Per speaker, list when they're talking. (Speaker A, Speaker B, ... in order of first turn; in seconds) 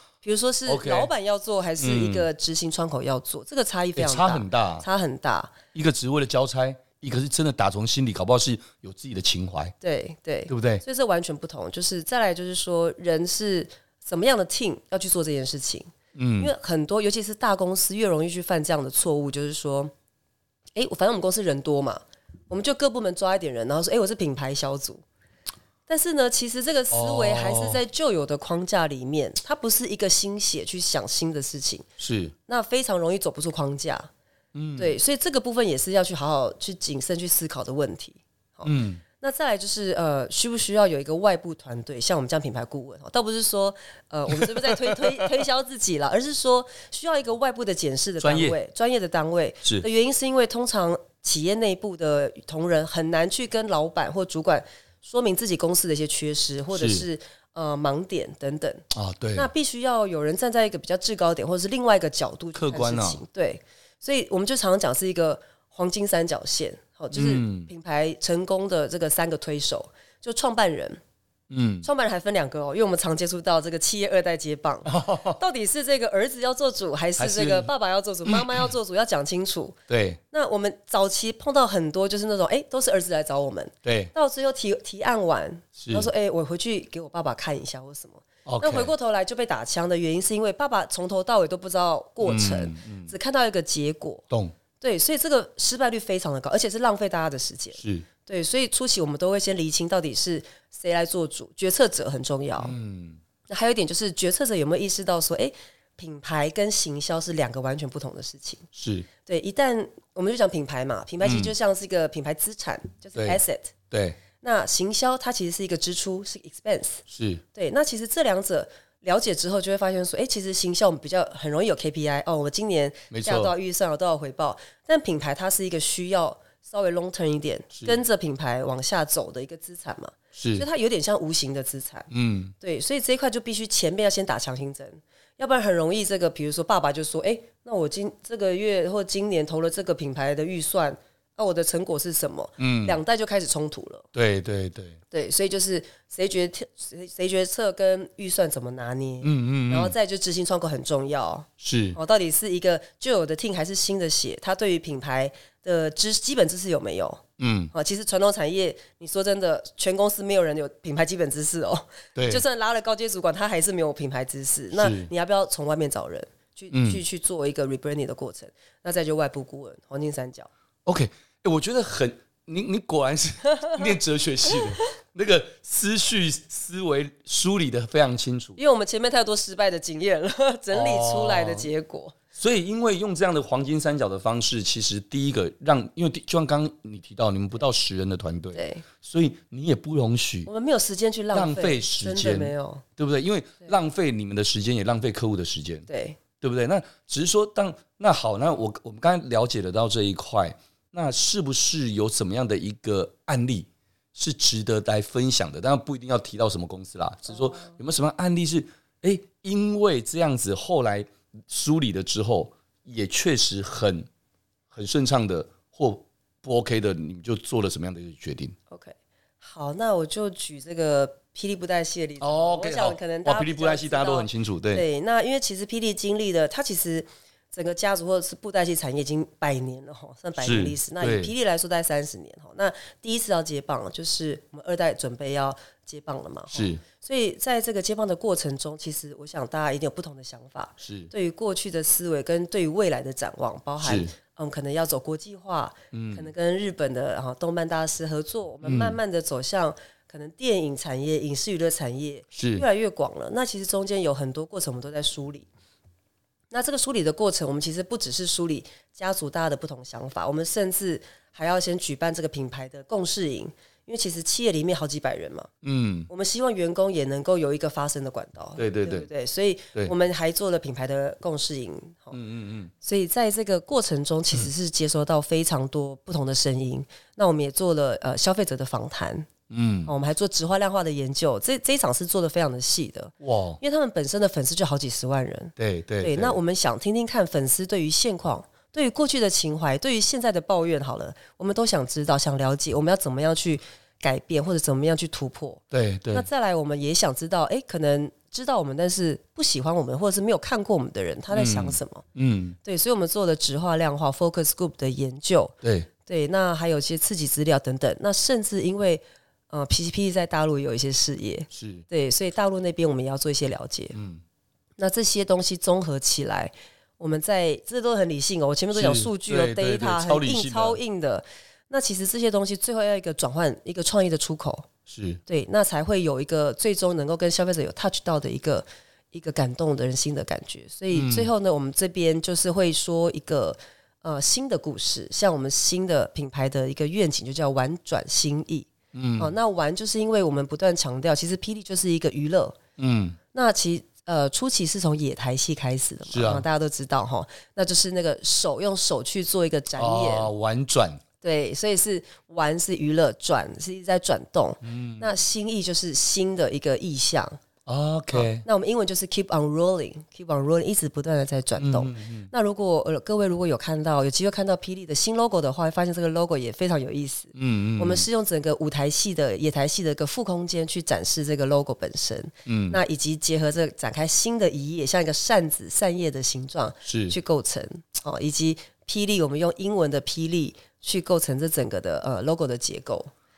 Speaker A: 0.2-5.5, 9.8-19.9, 20.8-25.0, 25.9-31.9, 32.5-34.1, 34.8-58.8, 59.4-71.0, 71.8-79.8, 80.3-94.3, 94.8-102.8, 103.5-108.7, 109.2-113.7, 114.4-132.1, 132.6-144.1, 145.1-170.5, 178.6-182.2, 188.5-188.8, 190.5-192.8, 195.9-196.2, 218.7-255.5, 256.5-265.5, 266.1-272.2, 272.8-279.3, 279.9-302.1, 302.6-305.6, 306.1-314.0, 314.8-324.7, 325.3-342.6, 343.3-350.3, 351.2-357.4, 358.1-383.1
Speaker B: 0.7-1.1, 1.8-2.3, 4.0-4.8, 5.7-9.7, 10.5-10.8, 16.1-16.5, 26.9-27.8, 32.0-32.4, 34.5-35.0, 38.6-39.0, 44.4-45.0, 48.2-48.6, 56.7-57.1, 58.9-59.5, 62.5-63.2, 67.1-67.7, 71.5-71.9, 74.9-75.4, 77.2-77.7, 78.3-78.7, 79.9-80.2, 83.8-84.1, 85.8-86.1, 88.5-88.9, 92.2-93.1, 94.3-94.5, 97.8-98.1, 102.6-103.2, 108.7-109.1, 111.2-111.5, 113.9-114.2, 117.1-117.4, 123.1-123.5, 127.7-128.0, 130.3-130.7, 132.1-132.5, 142.6-143.0, 144.1-145.0, 149.2-149.9, 151.6-152.0, 157.4-157.7, 162.2-162.4, 164.7-165.1, 166.7-167.0, 170.8-178.6, 180.7-181.7, 182.3-190.5, 191.3-214.1, 214.7-218.6, 222.2-224.8, 230.4-231.3, 236.5-236.8, 240.8-241.1, 243.8-244.1, 245.9-246.3, 248.6-249.0, 252.3-252.7, 265.6-266.1, 268.6-269.1, 272.1-272.7, 279.5-279.9, 283.2-283.6, 285.6-286.4, 295.7-296.3, 301.3-302.6, 305.6-305.9, 311.5-311.9, 313.9-314.2, 318.7-320.8, 324.9-325.2, 330.9-331.3, 338.9-339.3, 342.8-343.2, 346.1-346.4, 349.8-351.0, 354.6-355.1, 357.7-358.4, 361.6-362.3, 367.3-368.1, 372.5-372.8, 376.9-377.2